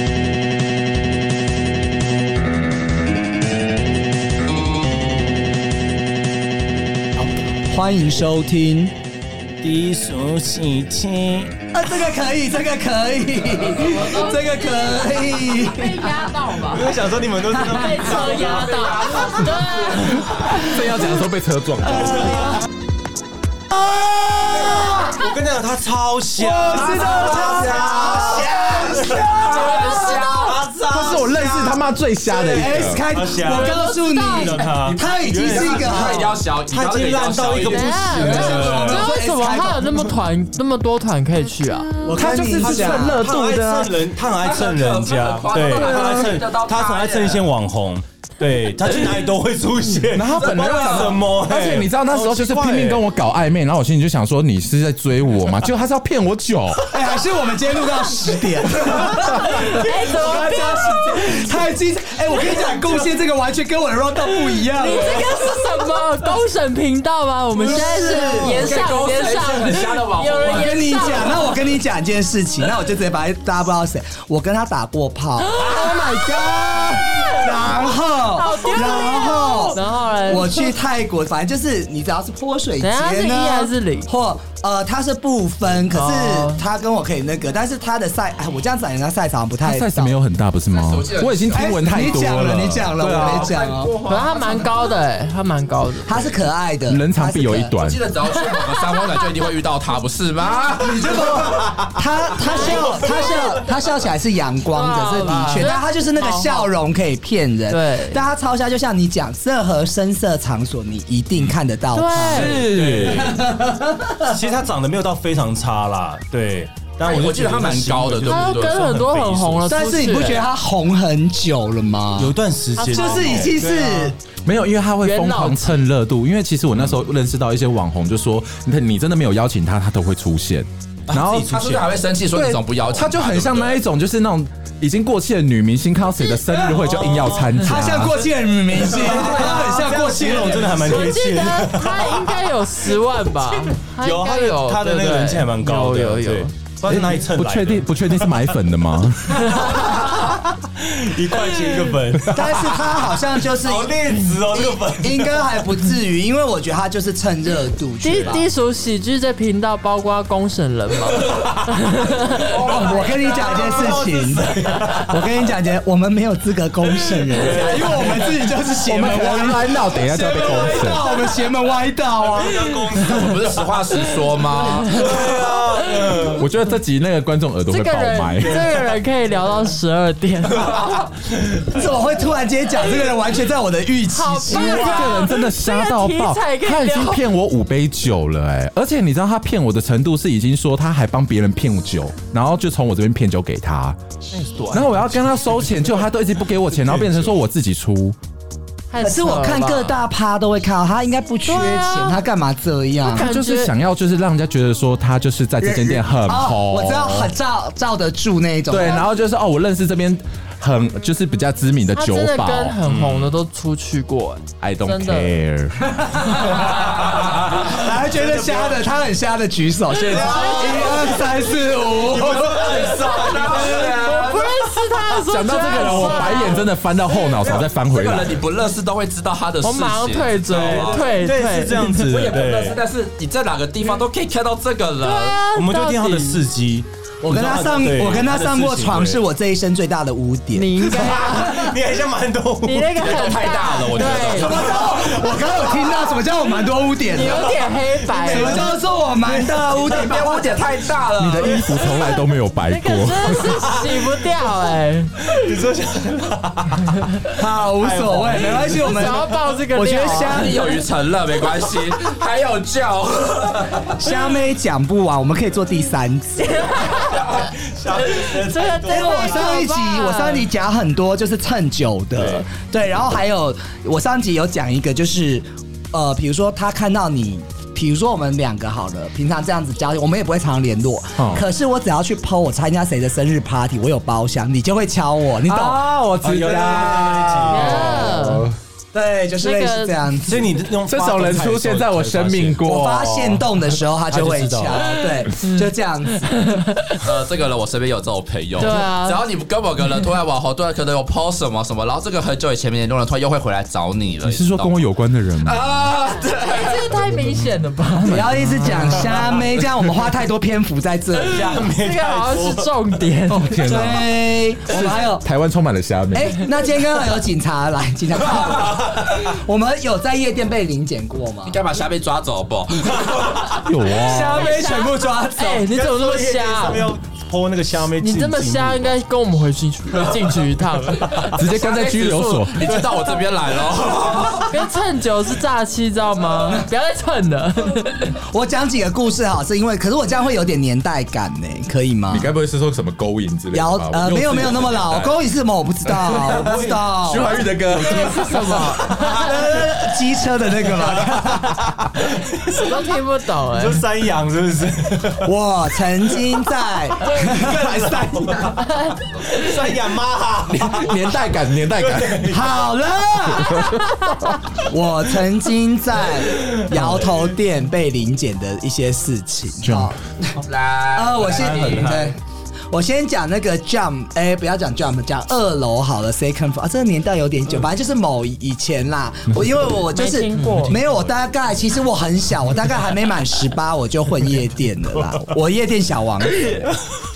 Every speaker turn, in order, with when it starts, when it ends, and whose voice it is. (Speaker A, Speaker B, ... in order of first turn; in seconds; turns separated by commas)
Speaker A: 7.2-8.9, Speaker B: 9.6-11.6, Speaker A: 11.7-16.6, Speaker C: 13.7-16.9, Speaker B: 16.6-18.7, Speaker A: 17.6-18.1, Speaker C: 17.6-20.7, Speaker D: 18.2-20.2, Speaker E: 20.4-22.6, Speaker B: 24.6-31.5, Speaker A: 24.6-25.1, Speaker A: 26.5-28.6, Speaker D: 27.3-30.6, Speaker A: 29.4-29.9, Speaker C: 29.4-30.2, Speaker A: 30.9-31.8, Speaker E: 30.9-33.0, Speaker B: 32.3-39.2, Speaker A: 32.4-36.4, Speaker C: 33.4-34.7, Speaker D: 35.5-38.7, Speaker C: 37.6-42.2, Speaker A: 38.2-40.1, Speaker A: 42.1-43.4, Speaker E: 42.2-43.9, Speaker B: 42.5-53.0, Speaker D: 44.4-47.5, Speaker E: 45.8-46.3, Speaker E: 50.1-56.9, Speaker D: 50.6-51.0, Speaker A: 56.9-65.5, Speaker B: 58.8-59.1, Speaker C: 59.5-61.5, Speaker B: 59.6-60.0, Speaker C: 64.7-71.6, Speaker A: 67.5-68.8, Speaker D: 68.0-71.4, Speaker A: 70.5-90.2, Speaker C: 75.4-80.7, Speaker C: 82.8-84.1, Speaker C: 85.9-86.6, Speaker E: 89.6-93.5, Speaker D: 90.7-92.3, Speaker A: 91.5-94.0, Speaker D: 93.0-94.9, Speaker C: 94.0-96.4, Speaker A: 96.1-97.7, Speaker E: 96.9-98.0, Speaker D: 97.8-101.3, Speaker C: 98.2-99.5, Speaker A: 100.8-114.3, Speaker B: 101.5-103.8, Speaker C: 102.5-103.4, Speaker C: 104.7-106.7, Speaker B: 105.3-105.7, Speaker C: 107.7-108.2, Speaker C: 111.9-112.6, Speaker E: 112.3-113.4, Speaker B: 112.5-113.4, Speaker B: 114.2-119.8, Speaker D: 117.0-118.8, Speaker C: 118.2-120.5, Speaker A: 119.7-122.4, Speaker B: 122.2-124.1, Speaker C: 122.8-123.5, Speaker A: 122.9-124.2, Speaker E: 124.5-131.6, Speaker C: 125.0-125.8, Speaker B: 131.1-132.0, Speaker D: 131.5-133.8, Speaker E: 132.3-138.3, Speaker B: 136.7-137.5, Speaker A: 137.3-141.1, Speaker C: 137.4-137.9, Speaker B: 138.7-142.4, Speaker C: 139.1-146.5, Speaker B: 143.5-148.5, Speaker E: 146.9-149.8, Speaker C: 149.3-150.3, Speaker B: 149.4-155.7, Speaker C: 151.4-151.8, Speaker A: 152.3-158.4, Speaker C: 158.0-162.6, Speaker B: 161.1-161.8, Speaker D: 162.5-163.7, Speaker A: 162.6-172.7, Speaker B: 162.6-165.4, Speaker B: 167.0-168.6, Speaker E: 168.9-171.1, Speaker B: 170.4-171.2, Speaker B: 172.2-176.4, Speaker D: 173.1-175.2, Speaker C: 174.9-176.4, Speaker E: 176.3-178.7, Speaker C: 177.7-180.8, Speaker B: 178.4-178.9, Speaker D: 180.6-181.1, Speaker A: 181.6-185.2, Speaker C: 184.1-187.2, Speaker E: 184.5-194.0, Speaker B: 194.3-196.1, Speaker E: 194.7-198.2, Speaker B: 196.7-197.3, Speaker C: 198.9-200.0, Speaker A: 199.0-203.3, Speaker C: 201.4-202.2, Speaker C: 203.1-203.7, Speaker E: 203.1-207.3, Speaker A: 205.6-209.0, Speaker E: 208.7-212.8, Speaker C: 211.9-215.4, Speaker B: 212.8-213.3, Speaker E: 214.6-216.0, Speaker A: 215.8-224.1, Speaker B: 216.5-218.9, Speaker B: 220.0-224.1, Speaker C: 220.1-221.3, Speaker D: 222.7-224.5, Speaker C: 223.9-226.7, Speaker E: 225.3-228.4, Speaker B: 225.8-226.3, Speaker B: 227.4-227.7, Speaker D: 227.5-231.1, Speaker C: 229.6-232.1, Speaker B: 230.5-232.8, Speaker D: 232.0-235.4, Speaker C: 235.0-236.4, Speaker B: 235.5-239.2, Speaker A: 237.2-241.5, Speaker C: 240.5-241.8, Speaker B: 240.9-243.1, Speaker C: 242.6-244.7, Speaker D: 243.0-245.4, Speaker A: 244.1-247.5, Speaker B: 244.9-246.2, Speaker C: 247.1-248.8, Speaker B: 247.2-247.6, Speaker B: 248.1-250.6, Speaker A: 248.2-250.7, Speaker D: 249.8-251.6, Speaker E: 251.2-253.6, Speaker C: 252.7-255.3, Speaker B: 253.6-253.9, Speaker B: 255.2-259.2, Speaker C: 257.0-257.2, Speaker A: 257.4-260.8, Speaker C: 258.8-260.5, Speaker D: 260.2-263.9, Speaker A: 263.9-266.8, Speaker C: 266.4-270.5, Speaker B: 266.9-269.6, Speaker A: 268.9-285.9, Speaker B: 272.2-272.5, Speaker E: 281.2-281.5, Speaker E: 285.5-288.6, Speaker B: 286.2-288.0, Speaker A: 286.4-288.1, Speaker C: 287.5-288.5, Speaker A: 288.9-290.5, Speaker C: 289.4-290.1, Speaker B: 290.3-294.9, Speaker E: 290.9-293.1, Speaker A: 292.6-296.7, Speaker C: 295.4-295.7, Speaker C: 296.2-297.1, Speaker D: 297.0-304.8, Speaker C: 298.6-299.2, Speaker E: 304.2-305.6, Speaker D: 305.4-307.0, Speaker C: 306.2-309.1, Speaker E: 308.0-309.1, Speaker A: 308.1-311.7, Speaker B: 308.7-309.4, Speaker B: 311.2-312.7, Speaker C: 311.5-313.7, Speaker E: 313.3-316.5, Speaker A: 313.6-315.3, Speaker A: 316.1-321.6, Speaker D: 321.5-323.4, Speaker B: 323.0-323.6, Speaker E: 323.6-324.6, Speaker A: 323.9-325.7, Speaker C: 323.9-326.9, Speaker B: 325.7-328.9, Speaker C: 328.0-331.4, Speaker B: 331.0-331.4, Speaker E: 331.4-332.7, Speaker D: 331.4-334.6, Speaker B: 332.6-333.0, Speaker C: 334.5-338.1, Speaker A: 338.2-342.3, Speaker E: 342.1-345.1, Speaker A: 343.5-347.4, Speaker B: 344.2-344.6, Speaker E: 346.1-348.6, Speaker B: 346.1-346.9, Speaker C: 347.8-349.3, Speaker B: 347.8-348.1, Speaker B: 348.7-349.6, Speaker A: 349.0-351.7, Speaker B: 350.6-352.9, Speaker C: 352.6-353.8, Speaker B: 353.5-355.3, Speaker A: 355.2-358.6, Speaker B: 357.0-358.7, Speaker C: 358.6-359.0, Speaker B: 359.2-362.6, Speaker E: 360.5-362.4, Speaker A: 362.3-370.4, Speaker E: 363.3-363.9, Speaker B: 366.2-367.3, Speaker E: 369.6-369.9, Speaker D: 370.4-372.0, Speaker A: 370.9-372.2, Speaker B: 371.2-372.1, Speaker A: 372.7-386.7, Speaker C: 379.9-380.8, Speaker B: 380.5-380.9, Speaker B: 386.4-386.9